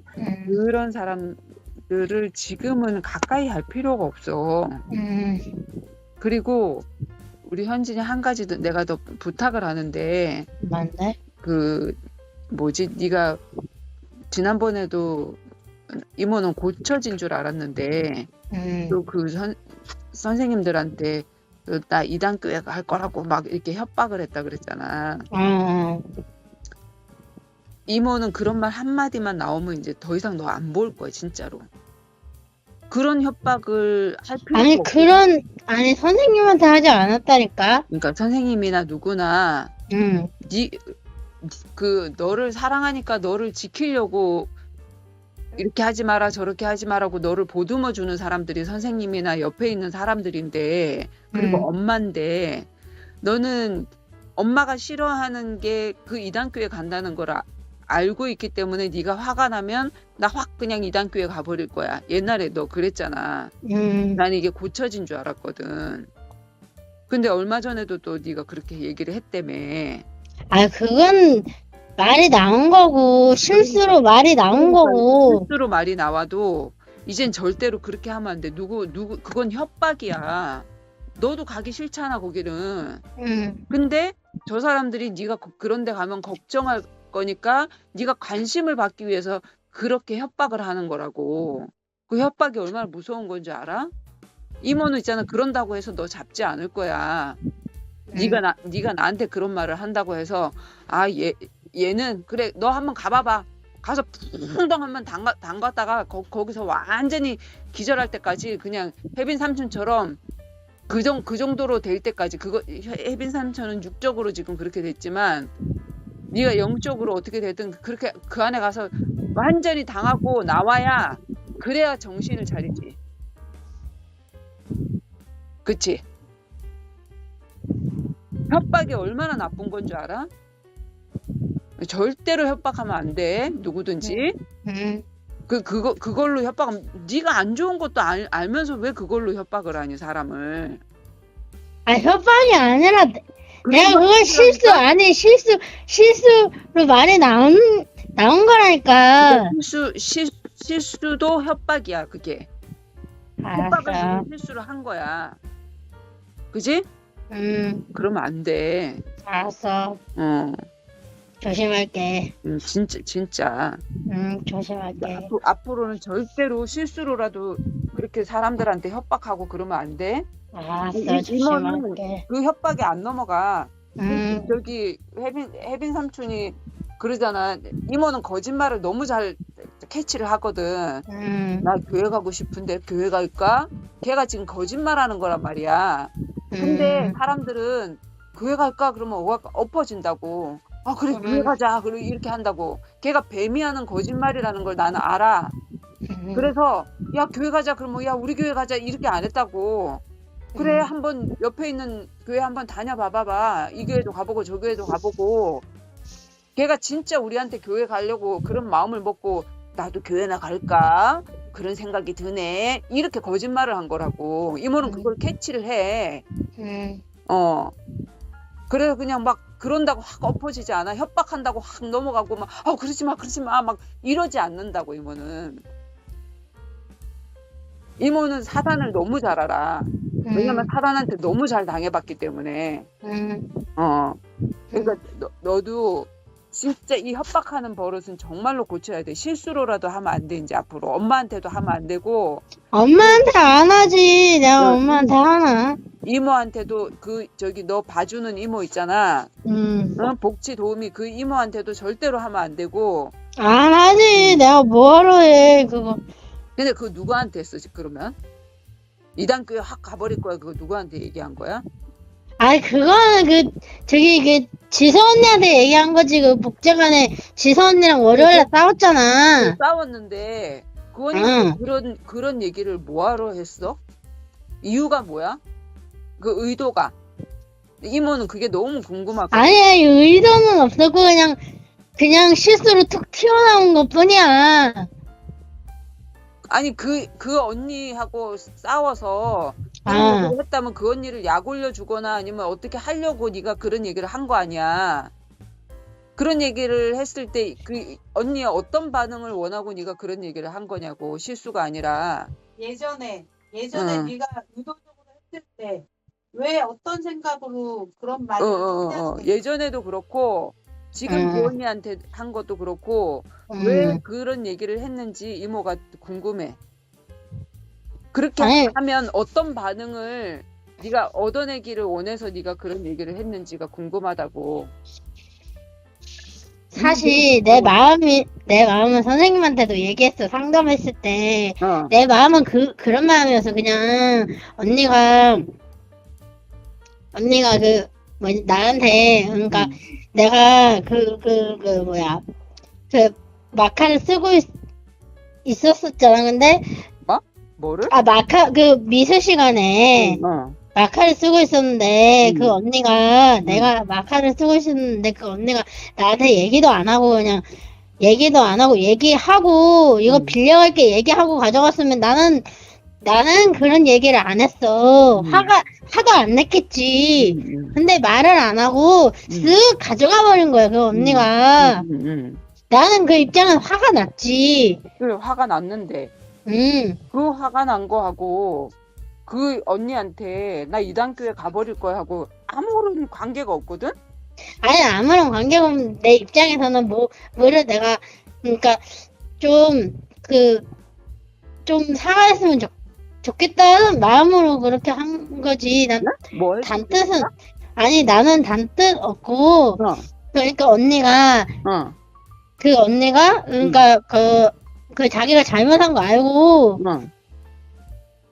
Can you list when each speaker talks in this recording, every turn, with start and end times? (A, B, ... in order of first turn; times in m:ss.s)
0:00.2-0:00.6 A
0:00.5-0:04.8 B
0:04.9-0:05.4 A
0:06.2-0:06.9 B
0:07.4-0:10.5 B
0:10.6-0:11.2 A
0:11.4-0:12.0 B
0:12.5-0:13.4 B
0:14.3-0:18.3 B
0:18.5-0:19.0 A
0:18.9-0:25.3 B
0:25.3-0:26.0 A
0:27.9-0:31.7 B
0:32.9-0:35.2 B
0:34.5-0:37.8 A
0:37.9-0:39.7 B
0:39.9-0:40.3 A
0:40.5-0:40.8 B
0:41.4-0:44.5 B
0:45.6-0:52.7 B
0:51.3-0:51.7 A
0:53.2-1:03.5 B
1:03.7-1:04.2 A
1:04.2-1:06.1 B
1:07.1-1:10.0 B
1:10.5-1:15.5 A
1:13.5-1:14.0 B
1:14.5-1:20.7 B
1:21.2-1:23.0 B
1:23.2-1:23.6 A
1:23.7-1:33.9 B
1:34.6-1:37.4 B
1:38.1-1:38.4 A
1:38.2-1:50.2 B
1:50.9-1:55.5 B
1:56.3-2:03.0 B
2:05.6-2:06.0 B
2:08.5-2:10.3 B
2:11.8-2:14.4 B
2:14.0-2:15.0 A
2:15.5-2:20.8 B
2:21.9-2:29.5 A
2:23.6-2:24.8 B
2:29.2-2:32.5 B
2:33.4-2:34.3 A
2:33.6-2:35.4 B
2:36.5-2:36.9 B
2:37.3-2:37.8 A
2:37.9-2:39.0 B
2:39.3-2:40.0 A
2:40.2-2:40.6 B
2:41.4-2:42.3 A
2:42.4-2:43.8 B
2:44.1-2:45.3 A
2:45.0-2:50.3 B
2:50.5-2:52.2 A
2:50.9-3:01.0 B
2:54.0-2:54.5 A
3:01.1-3:01.7 A
3:01.6-3:15.6 B
3:06.5-3:07.2 A
3:11.1-3:11.5 A
3:16.1-3:16.5 A
3:16.4-3:20.0 B
3:20.6-3:20.9 A
3:20.6-3:25.6 B
3:26.6-3:36.2 B
3:34.8-3:35.1 A
3:36.6-3:37.0 A
3:37.3-3:37.7 B
3:38.7-3:45.6 B
3:48.0-3:52.9 B
3:50.2-3:50.7 A
3:53.0-3:53.5 A
3:53.8-3:54.2 B
3:54.8-4:02.4 B
4:02.7-4:05.8 A
4:03.0-4:03.3 B
4:04.6-4:05.1 B
4:06.0-4:09.3 B
4:09.5-4:10.0 A
4:10.0-4:13.1 B
4:13.4-4:16.0 A
4:14.2-4:14.4 B
4:16.6-4:18.2 B
4:19.2-4:21.6 B
4:22.4-4:29.6 A
4:28.1-4:28.6 B
4:29.4-4:33.8 B
4:31.1-4:31.6 A
4:34.6-4:35.4 B
4:36.2-4:37.0 B
4:37.8-4:39.6 B
4:39.3-4:41.4 A
4:42.0-4:44.9 A
4:46.5-4:55.1 B
4:49.8-4:50.4 A
4:56.2-5:02.3 B
5:02.6-5:09.3 C
5:03.7-5:04.1 B
5:08.4-5:16.6 B
5:11.1-5:11.5 A
5:13.5-5:14.0 A
5:18.1-5:24.7 B
5:18.4-5:18.7 A
5:26.7-5:35.5 A
5:26.8-5:27.7 B
5:31.6-5:31.9 B
5:37.1-5:42.2 A
5:39.5-5:39.8 B
5:42.9-5:44.5 A
5:45.4-5:46.8 A
5:47.1-5:47.9 B
5:47.9-5:50.2 A
5:50.0-5:50.6 B
5:50.8-5:57.4 A
5:52.2-5:52.6 B
5:53.4-5:53.7 B
5:58.0-6:02.5 A
6:00.1-6:00.4 B
6:03.0-6:11.8 A
6:05.2-6:05.5 B
6:07.2-6:07.8 B
6:09.3-6:09.6 B
6:10.9-6:12.4 B
6:12.7-6:14.8 A
6:15.0-6:16.1 B
6:16.5-6:17.0 A
6:17.1-6:18.7 B
6:19.3-6:24.0 B
6:24.6-6:28.9 A
6:29.4-6:30.6 A
6:31.7-6:36.1 A
6:36.0-6:37.3 B
6:36.6-6:39.8 A
6:39.8-6:40.1 B
6:40.3-6:41.5 A
6:41.6-6:42.0 B
6:42.6-6:46.8 A
6:46.8-6:47.1 B